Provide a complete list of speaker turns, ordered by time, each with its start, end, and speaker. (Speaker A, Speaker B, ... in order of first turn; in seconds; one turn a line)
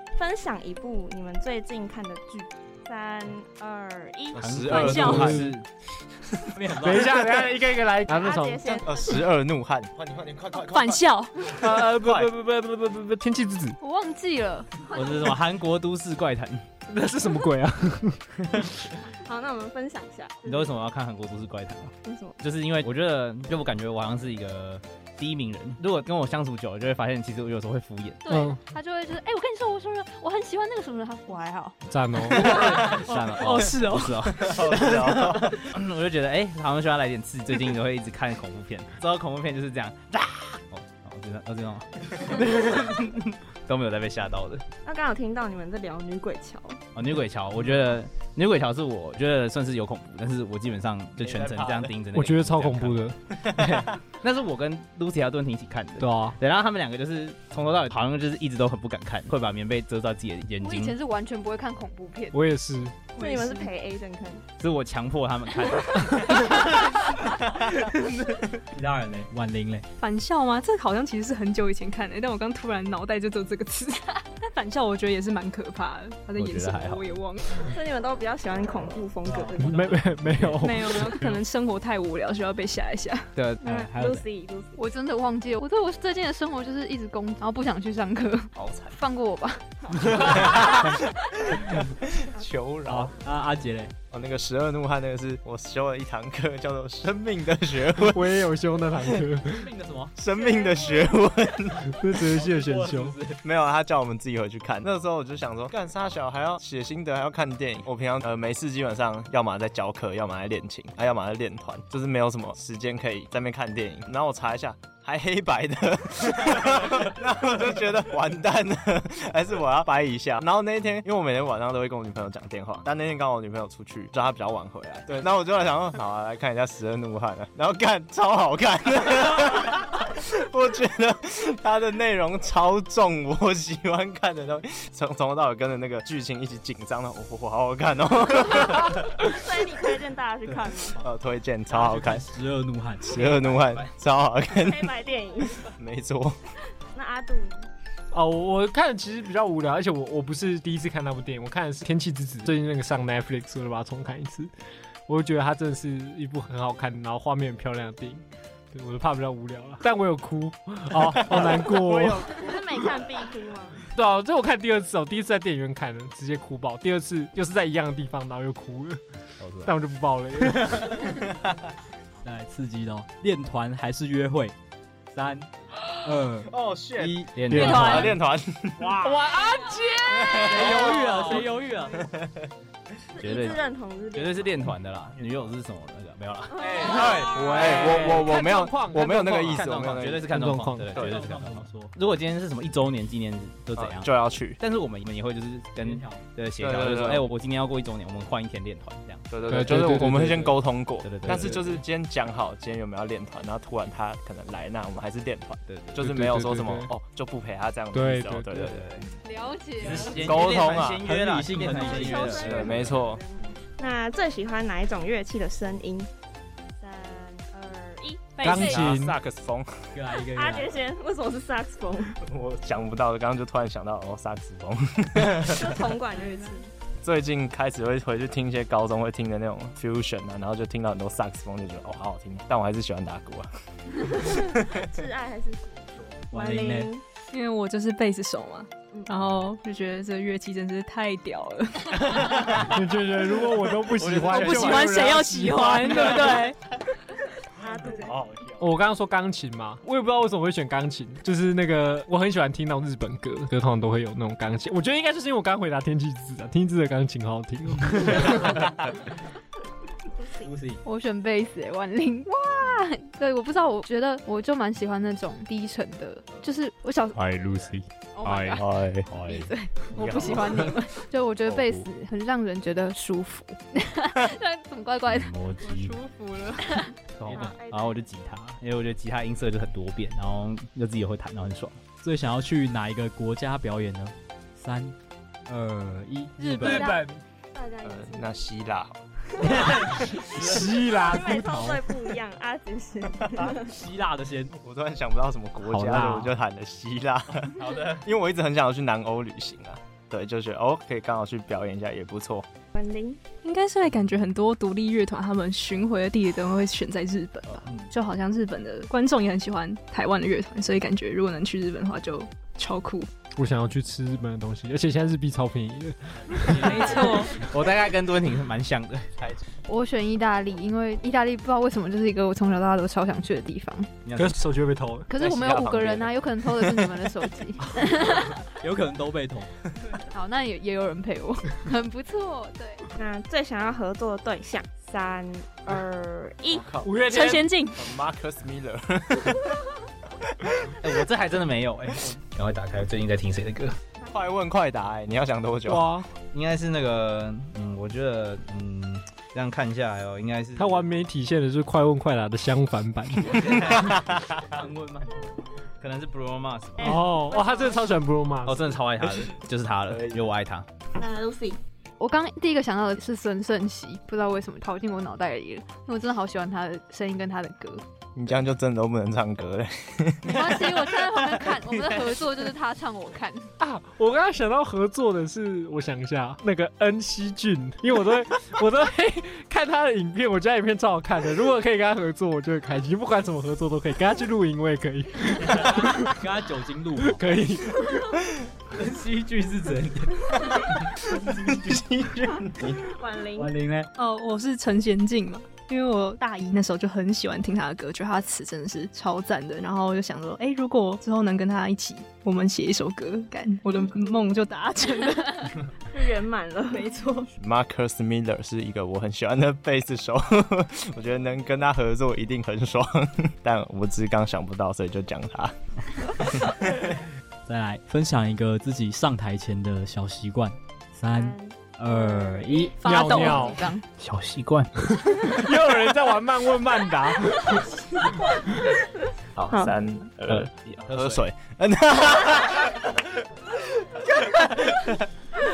Speaker A: 0.1-4.7
Speaker B: 4.3-5.5
Speaker C: 4.3-5.6
Speaker D: 4.7-5.3
Speaker E: 4.9-5.5
Speaker F: 6.5-7.4
Speaker E: 6.7-8.8
Speaker A: 8.1-9.2
Speaker B: 8.8-12.3
Speaker D: 10.6-11.4
Speaker E: 11.5-13.8
Speaker G: 13.8-14.9
Speaker C: 14.9-16.6
Speaker E: 16.9-18.6
Speaker C: 18.4-18.7
Speaker A: 19.1-20.7
Speaker C: 20.4-28.2
Speaker A: 22.0-22.4
Speaker G: 28.2-31.7
Speaker E: 28.3-28.6
Speaker E: 31.9-32.5
Speaker D: 32.4-34.3
Speaker C: 32.4-44.6
Speaker B: 34.4-35.6
Speaker A: 44.8-46.8
Speaker C: 46.9-61.0
Speaker B: 51.2-52.0
Speaker E: 52.1-53.2
Speaker E: 56.0-56.4
Speaker G: 60.6-62.4
Speaker E: 62.3-63.0
Speaker D: 63.2-63.7
Speaker A: 63.2-64.4
Speaker C: 64.6-67.6
Speaker F: 68.7-69.8
Speaker D: 70.0-77.7
Speaker C: 76.3-77.1
Speaker A: 77.7-80.2
Speaker F: 79.2-79.5
Speaker E: 79.6-81.2
Speaker D: 80.6-83.3
Speaker C: 83.3-84.2
Speaker A: 83.6-84.8
Speaker G: 84.8-89.6
Speaker B: 88.6-88.9
Speaker A: 89.8-91.0
Speaker B: 90.2-93.1
Speaker F: 92.8-93.9
Speaker B: 94.1-98.3
Speaker E: 98.0-99.7
Speaker F: 99.5-100.2
Speaker B: 100.2-101.9
Speaker A: 100.3-101.2
Speaker E: 101.8-103.2
Speaker F: 102.6-103.3
Speaker B: 103.4-139.4
Speaker A: 139.1-141.0
Speaker B: 141.0-142.2
Speaker F: 141.7-143.9
Speaker B: 143.1-144.9
Speaker A: 144.5-145.7
Speaker B: 145.7-146.4
Speaker A: 146.9-147.6
Speaker E: 148.1-154.5
Speaker E: 155.1-162.3
Speaker B: 161.3-162.3
Speaker A: 161.8-163.8
Speaker E: 163.9-169.0
Speaker C: 169.4-169.7
Speaker E: 169.6-171.0
Speaker C: 170.6-171.0
Speaker F: 172.2-174.6
Speaker F: 175.1-175.5
Speaker F: 176.0-176.5
Speaker B: 176.4-179.0
Speaker C: 177.0-178.2
Speaker E: 177.5-178.1
Speaker F: 177.6-177.9
Speaker D: 177.6-178.1
Speaker E: 178.9-181.2
Speaker B: 180.1-181.2
Speaker F: 180.4-182.0
Speaker B: 181.9-182.5
Speaker A: 183.1-184.7
Speaker C: 183.2-183.6
Speaker C: 184.1-186.8
Speaker A: 186.5-187.7
Speaker B: 186.6-190.3
Speaker F: 186.9-187.2
Speaker E: 187.0-191.0
Speaker C: 189.4-201.8
Speaker F: 190.9-191.9
Speaker B: 190.9-191.3
Speaker B: 193.8-194.6
Speaker F: 195.8-196.2
Speaker B: 196.6-197.3
Speaker B: 199.3-208.8
Speaker E: 199.5-200.5
Speaker E: 201.2-201.6
Speaker C: 205.7-206.0
Speaker E: 206.0-206.9
Speaker E: 207.9-208.7
Speaker C: 208.5-209.1
Speaker G: 209.2-210.2
Speaker C: 209.8-213.0
Speaker F: 209.8-212.7
Speaker B: 210.2-211.0
Speaker A: 211.5-216.1
Speaker B: 212.1-213.2
Speaker A: 216.8-218.8
Speaker D: 218.4-218.7
Speaker E: 218.4-219.2
Speaker B: 218.5-219.9
Speaker F: 219.9-220.8
Speaker A: 220.3-222.2
Speaker B: 222.2-225.8
Speaker A: 225.5-226.7
Speaker B: 227.0-233.5
Speaker B: 234.1-234.6
Speaker A: 234.2-237.0
Speaker F: 236.3-236.9
Speaker D: 237.3-242.4
Speaker E: 242.5-246.2
Speaker C: 244.0-245.0
Speaker B: 244.0-245.1
Speaker D: 244.2-246.6
Speaker A: 247.6-248.2
Speaker B: 248.0-248.6
Speaker E: 248.6-258.6
Speaker C: 258.1-258.4
Speaker C: 260.4-260.8
Speaker G: 260.8-267.2
Speaker F: 267.1-268.6
Speaker G: 268.2-268.6
Speaker B: 268.6-269.1
Speaker F: 269.1-269.5
Speaker G: 269.2-275.3
Speaker C: 269.9-270.6
Speaker B: 270.0-270.4
Speaker C: 271.5-271.8
Speaker F: 275.1-276.0
Speaker D: 275.6-276.8
Speaker C: 277.2-281.8
Speaker A: 277.2-278.1
Speaker F: 282.0-284.9
Speaker F: 285.5-287.1
Speaker G: 286.4-287.0
Speaker A: 286.6-287.0
Speaker A: 287.5-288.4
Speaker B: 287.8-289.0
Speaker A: 289.4-293.7
Speaker F: 289.4-290.7
Speaker E: 290.3-292.1
Speaker F: 293.4-294.5
Speaker B: 294.6-302.4
Speaker F: 295.7-296.3
Speaker C: 297.6-298.0
Speaker A: 302.7-303.2
Speaker D: 303.4-313.1
Speaker C: 307.5-307.9
Speaker E: 313.4-317.1
Speaker D: 316.5-317.4
Speaker C: 317.3-319.1
Speaker G: 319.7-323.9
Speaker C: 324.0-324.4
Speaker E: 324.1-325.1
Speaker G: 325.1-328.4
Speaker B: 325.1-326.2
Speaker F: 328.5-329.5
Speaker G: 330.1-332.8
Speaker A: 332.9-336.6
Speaker B: 336.5-339.6
Speaker E: 336.8-337.4
Speaker D: 337.0-337.9
Speaker B: 340.2-340.7
Speaker C: 340.8-343.8
Speaker A: 344.0-344.3
Speaker B: 344.1-345.9
Speaker E: 345.6-346.1
Speaker C: 346.3-350.9
Speaker E: 350.6-353.8
Speaker C: 353.2-354.7
Speaker B: 353.9-354.4
Speaker F: 354.5-355.1
Speaker C: 355.8-357.0
Speaker E: 356.8-358.8
Speaker A: 356.8-357.9
Speaker C: 358.4-360.7
Speaker B: 359.9-360.3
Speaker A: 360.9-361.6
Speaker G: 362.0-367.8
Speaker B: 368.1-370.9
Speaker G: 370.2-373.5
Speaker E: 373.6-386.2
Speaker F: 385.5-387.2
Speaker E: 387.0-387.8
Speaker F: 388.7-390.3
Speaker B: 391.5-392.8
Speaker A: 392.8-393.5
Speaker F: 393.4-393.9
Speaker D: 393.9-405.6
Speaker A: 405.9-407.0
Speaker D: 406.7-407.3
Speaker B: 407.4-415.5
Speaker B: 416.3-416.9
Speaker F: 417.4-422.8
Speaker A: 421.1-422.7
Speaker D: 422.8-423.6
Speaker G: 422.8-423.8
Speaker E: 422.8-423.6
Speaker C: 424.0-424.7
Speaker E: 425.0-427.7
Speaker B: 429.3-433.0
Speaker A: 429.5-429.7
Speaker C: 430.3-431.3
Speaker B: 434.1-435.0